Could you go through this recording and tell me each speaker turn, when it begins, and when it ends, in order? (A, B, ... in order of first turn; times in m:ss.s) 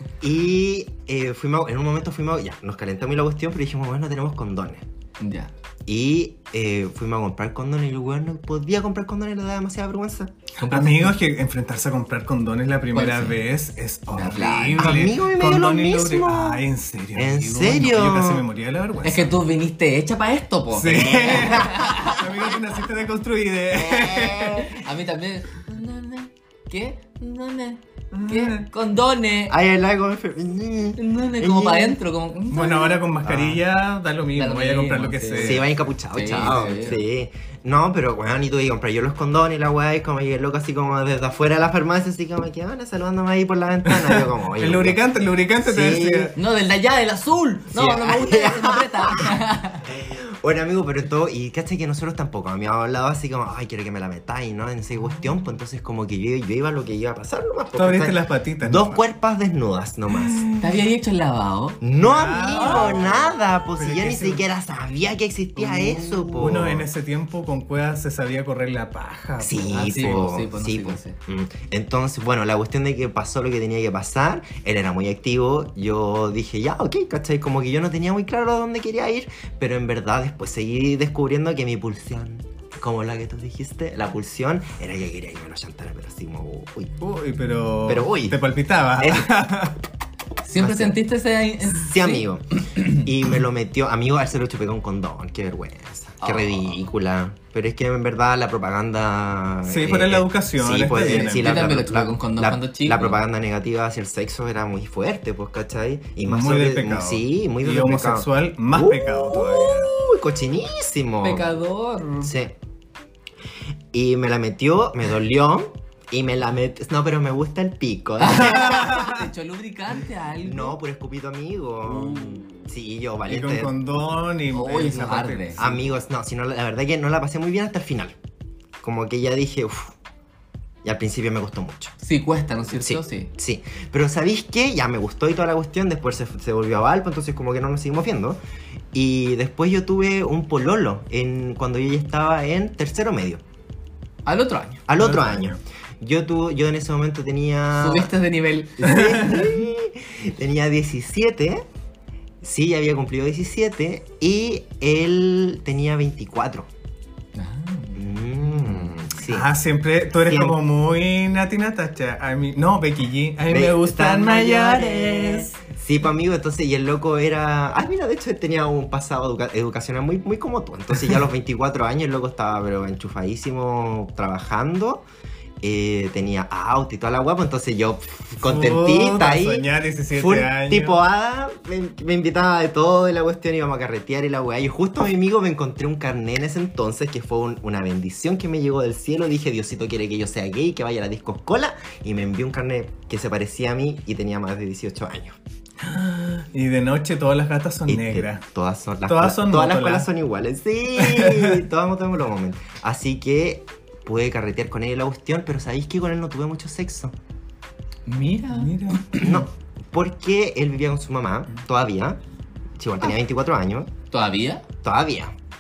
0:00.2-0:04.8 A
0:05.2-0:05.5 B
0:05.9-0:10.3 A
0:10.6-0:11.1 B
0:10.7-0:19.4 C
0:12.9-0:13.4 B
0:14.1-0:14.9 B
0:14.8-0:16.6 A
0:17.2-0:18.4 A
0:19.0-0:22.2 B
0:20.7-0:24.8 C
0:21.2-0:21.7 A
0:23.7-0:24.8 A
0:24.7-0:29.6 B
0:28.1-0:28.7 C
0:29.5-0:32.0 A
0:31.0-0:33.0 B
0:32.5-0:35.6 C
0:33.2-0:33.6 A
0:34.4-0:37.0 B
0:35.4-0:45.0 A
0:43.9-0:46.4 C
0:45.6-0:46.4 A
0:46.4-0:49.9 B
0:47.7-1:00.5 A
0:57.8-0:59.0 C
1:00.2-1:00.7 C
1:00.6-1:01.8 B
1:01.8-1:06.9 A
1:02.0-1:04.4 C
1:02.6-1:03.0 B
1:05.6-1:10.0 C
1:09.4-1:27.0 A
1:09.7-1:11.2 B
1:27.0-1:29.8 C
1:27.8-1:28.4 A
1:29.0-1:29.3 A
1:30.4-1:33.0 B
1:30.6-1:31.0 A
1:31.7-1:51.5 A
1:36.2-1:36.8 B
1:39.7-1:41.6 C
1:41.0-1:43.2 B
1:46.3-1:49.9 C
1:51.2-1:52.3 B
1:52.2-1:52.6 A
1:53.9-1:59.2 A
1:58.2-2:00.8 B
1:58.6-1:59.2 C
2:00.4-2:03.7 A
2:01.8-2:02.7 B
2:03.3-2:05.8 C
2:04.5-2:05.6 B
2:05.6-2:08.2 A
2:08.8-2:10.0 A
2:10.8-2:11.9 A
2:12.0-2:13.3 B
2:12.7-2:18.4 A
2:18.9-2:23.4 A
2:24.3-2:24.9 B
2:24.9-2:28.1 A
2:25.0-2:25.6 C
2:27.8-2:29.0 B
2:28.8-2:31.6 A
2:29.0-2:29.4 C
2:32.4-2:36.7 A
2:37.4-2:38.9 B
2:38.0-2:39.5 A
2:39.2-2:45.5 C
2:40.1-2:40.6 A
2:43.5-2:55.0 A
2:55.6-3:15.4 A
2:58.4-3:01.0 C
3:15.8-3:18.4 C
3:17.9-3:27.2 A
3:19.1-3:20.1 C
3:21.0-3:21.6 C
3:28.1-3:29.2 B
3:28.5-3:29.4 C
3:29.2-3:32.2 A
3:32.8-3:33.9 A
3:34.1-3:34.6 B
3:34.8-3:35.4 A